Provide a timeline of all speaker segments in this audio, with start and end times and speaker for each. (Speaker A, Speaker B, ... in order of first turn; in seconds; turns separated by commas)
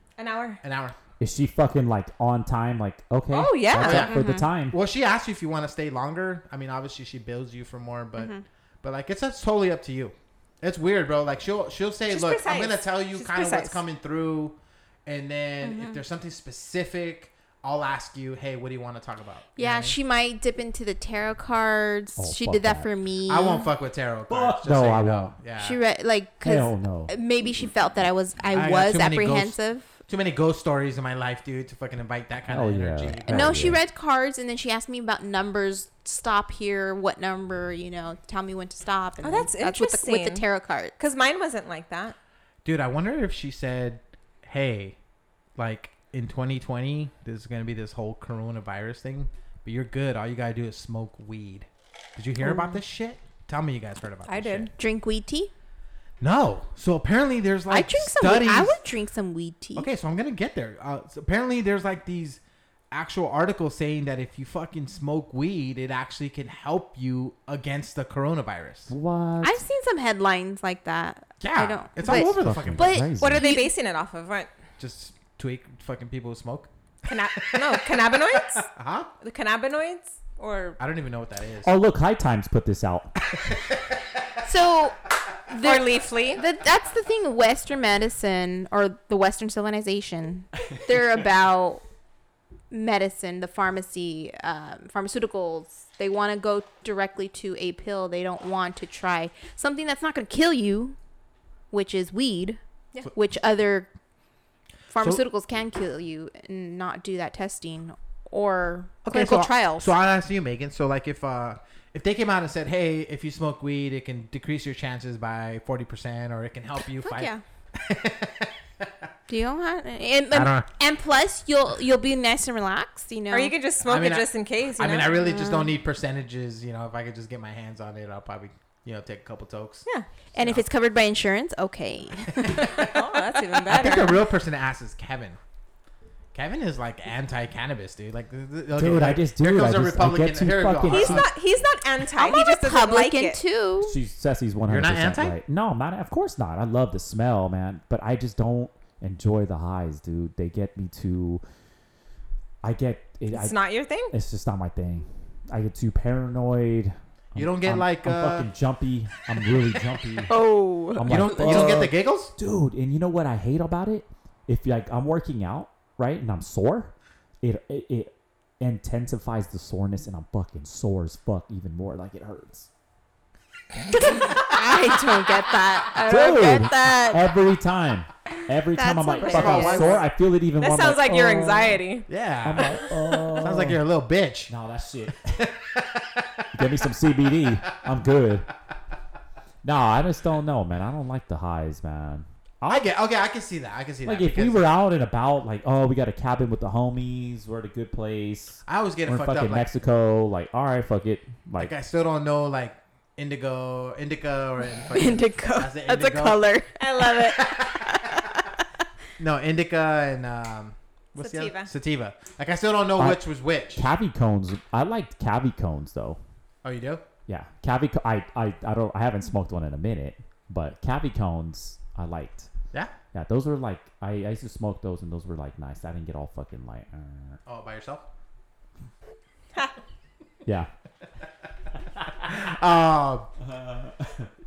Speaker A: 0.2-0.6, Speaker B: 0.6-1.0, Speaker C: 1.2-4.8, Speaker A: 3.3-4.1, Speaker B: 3.8-4.2, Speaker D: 3.9-4.5, Speaker B: 4.7-20.0, Speaker D: 8.2-8.4, Speaker A: 12.1-13.8, Speaker D: 15.6-16.0, Speaker D: 19.6-23.7, Speaker C: 22.2-22.9, Speaker B: 23.3-25.8, Speaker C: 24.3-25.3, Speaker D: 25.6-30.0, Speaker C: 26.4-27.1, Speaker B: 28.5-33.8, Speaker C: 32.5-33.8, Speaker D: 33.3-41.0, Speaker A: 39.2-40.5, Speaker A: 41.0-42.2, Speaker B: 42.6-45.0, Speaker B: 45.6-54.7, Speaker D: 52.4-52.8, Speaker A: 54.2-54.7, Speaker D: 54.8-55.5, Speaker B: 56.2-58.8, Speaker D: 57.7-59.9, Speaker B: 59.8-68.9, Speaker C: 68.9-69.6, Speaker D: 69.4-73.7, Speaker B: 71.4-73.0, Speaker C: 72.0-73.5, Speaker A: 73.2-74.5, Speaker B: 74.8-76.7, Speaker A: 77.1-80.8, Speaker B: 77.4-79.1, Speaker B: 80.8-81.8, Speaker C: 81.6-83.1, Speaker D: 84.4-91.8, Speaker A: 85.6-86.4, Speaker D: 92.7-101.0, Speaker D: 101.7-102.6, Speaker D: 103.1-103.9, Speaker D: 104.9-109.9, Speaker B: 109.0-118.9, Speaker D: 116.9-117.4, Speaker D: 119.3-123.5, Speaker B: 120.3-120.7, Speaker A: 123.3-125.1, Speaker B: 123.8-129.8, Speaker D: 125.1-125.7, Speaker D: 130.3-133.0, Speaker B: 130.4-130.7, Speaker B: 132.4-132.9, Speaker A: 132.8-134.2, Speaker B: 133.7-135.4, Speaker B: 136.3-141.3, Speaker C: 138.8-141.3, Speaker A: 140.9-143.4, Speaker D: 142.2-143.9, Speaker C: 143.8-151.4, Speaker B: 144.7-145.4, Speaker C: 152.6-153.6, Speaker A: 153.3-154.1, Speaker C: 154.1-172.7, Speaker B: 157.3-158.5, Speaker D: 160.3-161.4, Speaker B: 161.1-162.3, Speaker D: 174.3-177.2, Speaker C: 176.0-181.8, Speaker D: 178.7-180.0, Speaker B: 179.2-180.1, Speaker A: 180.6-182.1, Speaker B: 182.1-184.5, Speaker C: 182.4-183.8, Speaker C: 184.5-185.4, Speaker B: 185.3-186.5, Speaker C: 186.5-188.5, Speaker C: 189.6-192.8, Speaker B: 192.7-194.7, Speaker C: 194.1-201.7, Speaker B: 198.7-199.7, Speaker B: 201.6-208.2, Speaker D: 204.9-208.6, Speaker A: 206.8-207.2, Speaker B: 209.2-213.9, Speaker A: 211.2-211.7, Speaker C: 213.0-213.2, Speaker C: 213.8-216.2, Speaker B: 216.6-217.1, Speaker C: 217.3-222.5, Speaker C: 223.1-227.4, Speaker B: 227.5-228.1, Speaker B: 232.2-233.3, Speaker C: 233.5-234.3